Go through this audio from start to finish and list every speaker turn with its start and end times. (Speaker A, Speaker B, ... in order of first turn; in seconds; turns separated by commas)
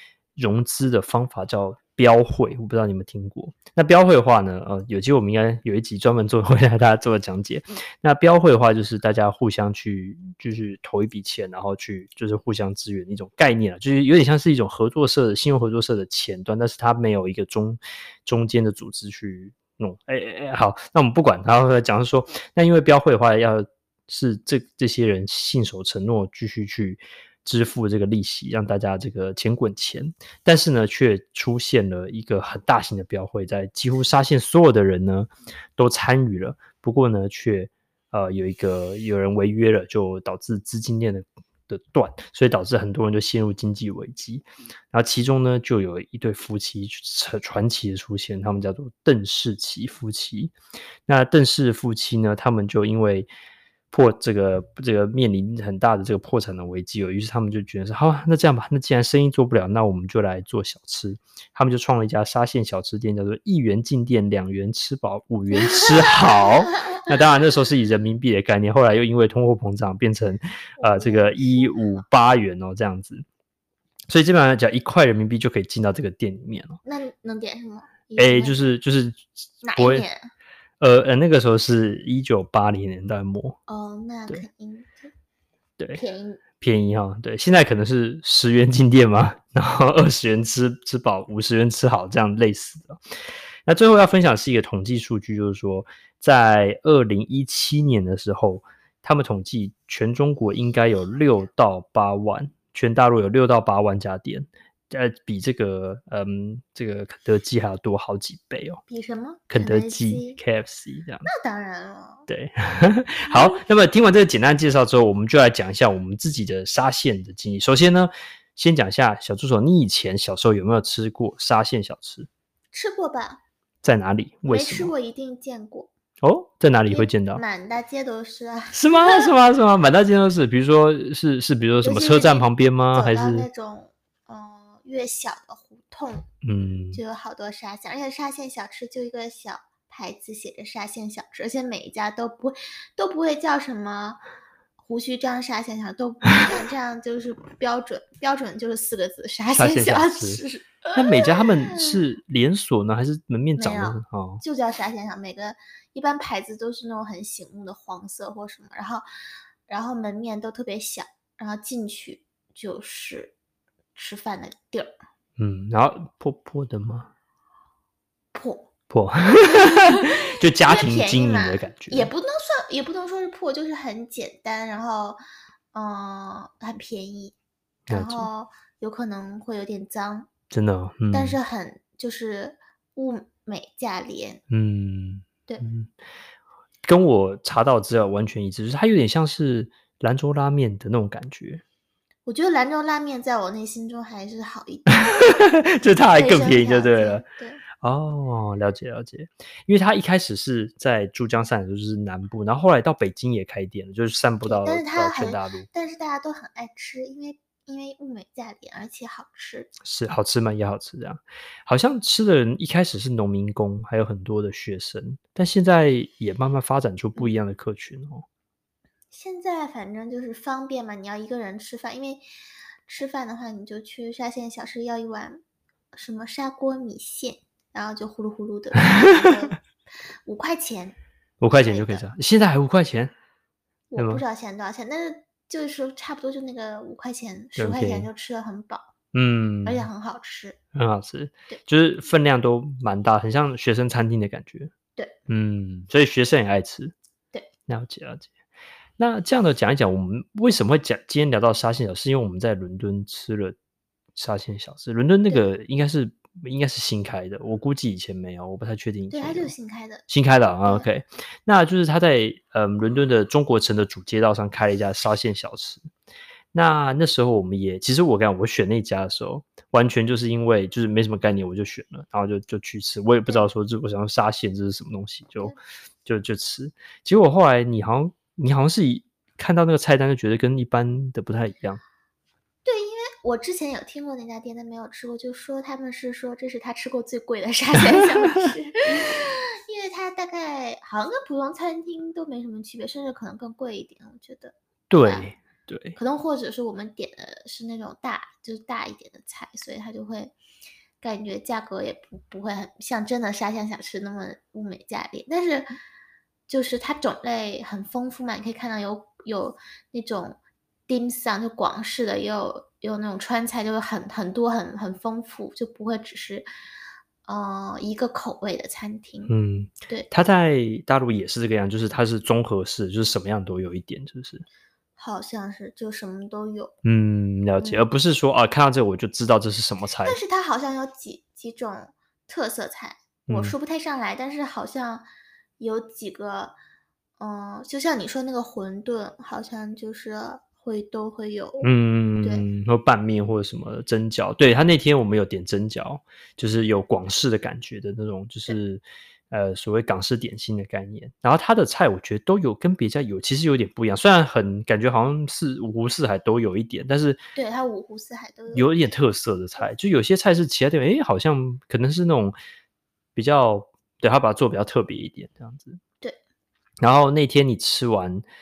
Speaker A: 0.4-50.5, Speaker A: 51.1-53.3, Speaker A: 53.9-73.2, Speaker B: 65.6-67.0, Speaker B: 70.8-71.8, Speaker A: 74.1-76.8, Speaker B: 76.8-78.8, Speaker A: 78.2-80.1, Speaker B: 79.6-80.3, Speaker A: 80.8-83.6, Speaker B: 83.7-85.1, Speaker B: 86.0-86.4, Speaker A: 86.6-93.0, Speaker A: 93.7-108.8, Speaker B: 108.9-110.4, Speaker A: 109.5-111.3, Speaker B: 111.2-112.3, Speaker A: 112.3-122.3, Speaker B: 113.3-113.6, Speaker B: 122.7-123.4, Speaker A: 123.8-124.9, Speaker B: 124.5-125.9, Speaker A: 126.2-127.4, Speaker B: 126.9-129.3, Speaker A: 128.7-133.5, Speaker B: 131.8-136.3, Speaker A: 136.4-137.0, Speaker B: 136.9-144.2, Speaker B: 144.8-152.0, Speaker A: 149.5-150.4, Speaker A: 150.9-154.4, Speaker B: 153.6-159.1, Speaker B: 159.7-163.3, Speaker B: 163.9-164.9, Speaker A: 165.4-167.1, Speaker B: 168.3-168.7, Speaker A: 168.9-172.1, Speaker B: 169.7-175.2, Speaker B: 175.7-177.3, Speaker A: 177.9-178.3, Speaker B: 177.9-180.3, Speaker A: 180.5-181.4, Speaker B: 181.1-184.4, Speaker A: 184.5-185.9, Speaker A: 186.8-191.6, Speaker B: 192.3-195.4, Speaker A: 195.2-197.2, Speaker B: 196.1-197.6, Speaker A: 197.8-205.7, Speaker B: 204.4-209.7, Speaker A: 209.8-218.2, Speaker B: 219.1-222.2, Speaker B: 222.9-225.4, Speaker B: 225.9-229.6, Speaker B: 230.2-231.0, Speaker A: 231.4-233.1, Speaker B: 231.5-232.1, Speaker B: 233.9-238.9, Speaker A: 234.0-234.2, Speaker A: 237.6-238.1, Speaker A: 239.1-239.9, Speaker B: 239.7-240.6, Speaker A: 240.8-244.7, Speaker A: 245.3-246.9, Speaker A: 247.7-248.3, Speaker A: 249.0-253.6, Speaker A: 254.2-259.5, Speaker B: 259.1-260.0, Speaker A: 260.1-265.9, Speaker A: 266.5-281.8, Speaker B: 282.6-295.3, Speaker A: 294.9-296.0, Speaker B: 296.0-300.4, Speaker B: 301.0-305.7, Speaker B: 306.5-316.5, Speaker B: 317.3-319.3, Speaker A: 319.3-324.4, Speaker B: 325.0-326.7, Speaker A: 326.8-330.2, Speaker B: 327.6-327.9, Speaker B: 330.0-335.1, Speaker A: 333.3-333.6, Speaker B: 335.6-336.6, Speaker B: 337.2-341.7, Speaker A: 341.6-357.2, Speaker B: 357.4-358.9, Speaker A: 358.5-362.4, Speaker A: 363.1-365.8, Speaker A: 366.8-368.3